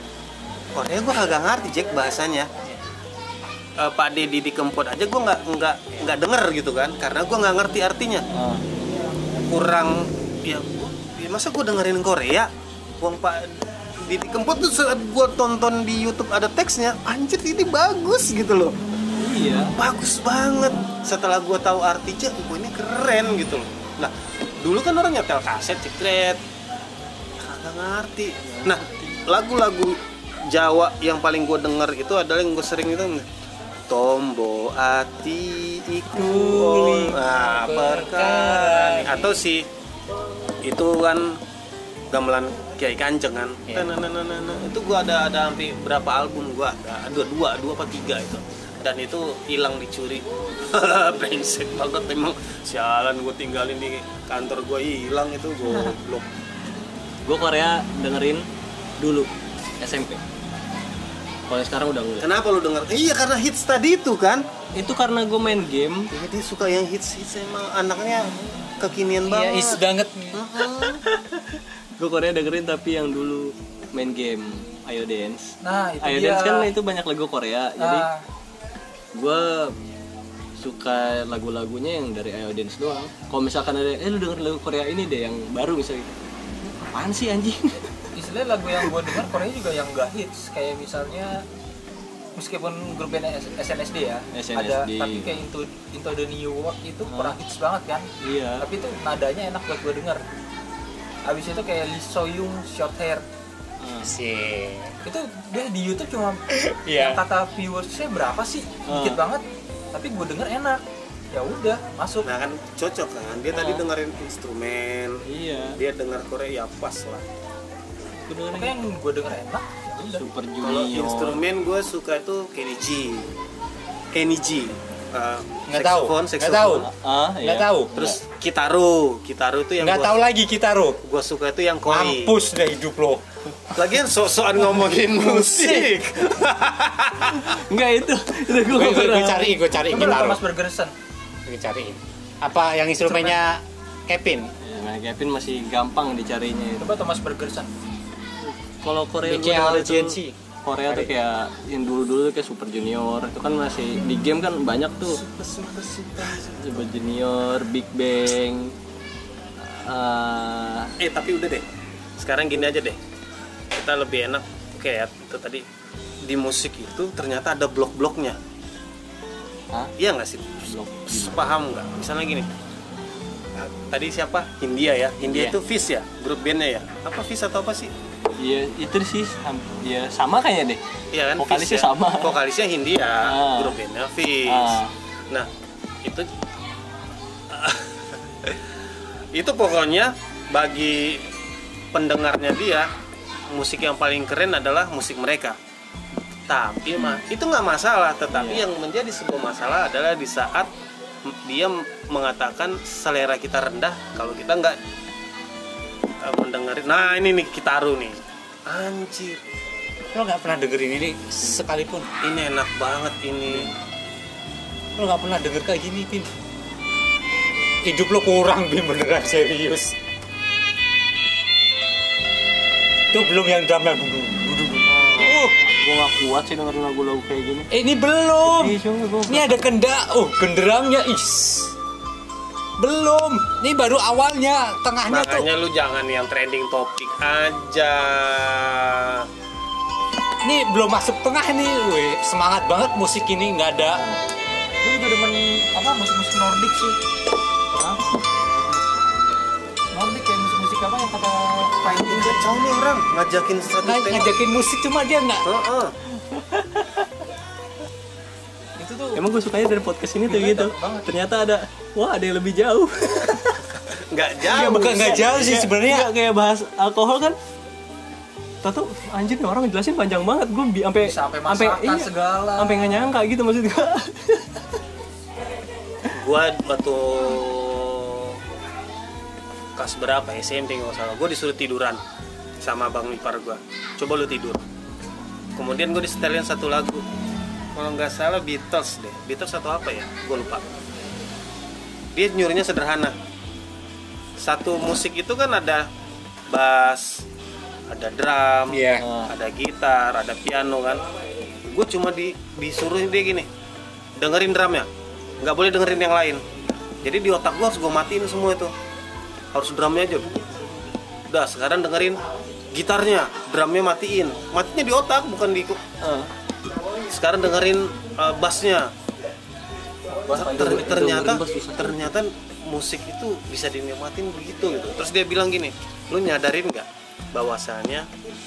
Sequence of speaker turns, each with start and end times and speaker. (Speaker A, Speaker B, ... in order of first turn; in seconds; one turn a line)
Speaker A: 0.7-2.5
Speaker A: 3.8-8.2
Speaker B: 8.3-8.6
Speaker A: 9.4-18.8
Speaker B: 19.2-19.7
Speaker A: 19.7-26.4
Speaker A: 27.4-33.2
Speaker B: 28.5-28.8
Speaker A: 33.9-39.6
Speaker C: 36.1-39.4
Speaker A: 40.6-41.4
Speaker A: 42.1-56.2
Speaker C: 43.7-43.9
Speaker B: 57.2-58.5
Speaker B: 59.0-60.2
Speaker B: 61.5-62.3
Speaker A: 62.2-64.4
Speaker B: 64.7-66.1
Speaker A: 66.1-69.8
Speaker C: 69.2-70.5
Speaker A: 70.3-71.0
Speaker B: 70.8-78.1
Speaker D: 75.6-76.7
Speaker D: 77.8-78.2
Speaker B: 79.1-79.7
Speaker B: 80.6-88.1
Speaker D: 88.1-91.4
Speaker D: 92.3-98.1
Speaker B: 94.3-95.4
Speaker B: 97.1-97.3
Speaker B: 98.2-98.7
Speaker D: 98.6-100.2
Speaker D: 101.2-103.2
Speaker B: 103.8-104.1
Speaker C: 104.0-105.0
Speaker D: 105.0-112.2
Speaker C: 106.5-107.2
Speaker B: 108.9-109.2
Speaker A: 112.2-115.2
Speaker B: 113.5-113.8
Speaker B: 115.2-115.8
Speaker A: 115.8-117.2
Speaker B: 118.3-118.8
Speaker D: 118.5-120.2
Speaker B: 120.1-121.4
Speaker A: 120.6-123.3
Speaker A: 124.1-126.9
Speaker C: 125.7-126.9
Speaker B: 126.8-128.2
Speaker C: 127.4-127.9
Speaker A: 127.9-130.2
Speaker C: 129.8-131.0
Speaker A: 131.0-132.3
Speaker C: 131.9-133.2
Speaker A: 133.7-137.6
Speaker B: 137.3-139.5
Speaker C: 138.7-140.4
Speaker D: 139.8-140.9
Speaker C: 141.4-144.5
Speaker D: 143.1-143.3
Speaker B: 144.6-146.9
Speaker D: 146.8-147.7
Speaker B: 148.5-155.2
Speaker C: 149.2-151.1
Speaker A: 155.2-156.8
Speaker B: 156.6-158.7
Speaker B: 159.6-160.9
Speaker A: 161.0-161.6
Speaker A: 162.2-163.0
Speaker A: 163.7-165.6
Speaker A: 166.2-168.4
Speaker A: 170.0-172.5
Speaker B: 170.7-171.4
Speaker A: 173.6-177.9
Speaker B: 175.2-175.6
Speaker B: 178.4-180.8
Speaker A: 181.1-185.5
Speaker B: 181.4-182.3
Speaker B: 183.2-183.8
Speaker B: 184.4-184.9
Speaker A: 186.0-186.3
Speaker A: 187.5-188.6
Speaker A: 189.3-191.2
Speaker A: 191.9-192.9
Speaker A: 193.5-195.6
Speaker A: 196.5-200.7
Speaker B: 198.3-198.7
Speaker A: 201.2-204.8
Speaker A: 206.2-209.4
Speaker C: 210.1-212.1
Speaker A: 212.2-213.7
Speaker C: 214.9-216.3
Speaker C: 217.8-219.9
Speaker C: 223.1-225.5
Speaker B: 225.1-227.7
Speaker C: 227.7-231.7
Speaker B: 228.4-229.4
Speaker C: 232.8-235.5
Speaker A: 235.1-239.3
Speaker C: 240.4-244.0
Speaker D: 244.8-247.0
Speaker D: 247.7-248.3
Speaker D: 249.9-252.4
Speaker A: 251.8-254.3
Speaker C: 253.8-255.4
Speaker A: 255.4-255.9
Speaker B: 256.3-257.1
Speaker D: 258.8-259.2
Speaker B: 259.1-263.8
Speaker D: 260.3-261.1
Speaker A: 264.0-265.7
Speaker C: 264.4-266.1
Speaker B: 264.5-267.4
Speaker B: 268.6-274.7
Speaker D: 271.0-273.1
Speaker A: 276.1-278.4
Speaker A: 279.8-282.0
Speaker A: 282.6-284.6
Speaker A: 285.6-287.0
Speaker A: 287.7-290.7
Speaker A: 292.1-293.1
Speaker A: 294.4-295.9
Speaker A: 296.5-297.2
Speaker A: 297.9-301.0
Speaker C: 298.7-299.0
Speaker B: 299.0-299.3
Speaker A: 301.6-303.5
Speaker A: 304.2-304.9
Speaker A: 305.4-306.4
Speaker A: 307.0-308.7
Speaker A: 309.5-310.4
Speaker A: 311.3-312.2
Speaker A: 312.7-315.8
Speaker B: 316.0-316.3
Speaker A: 317.1-318.9
Speaker D: 320.1-321.1
Speaker A: 320.3-328.1
Speaker B: 320.5-322.1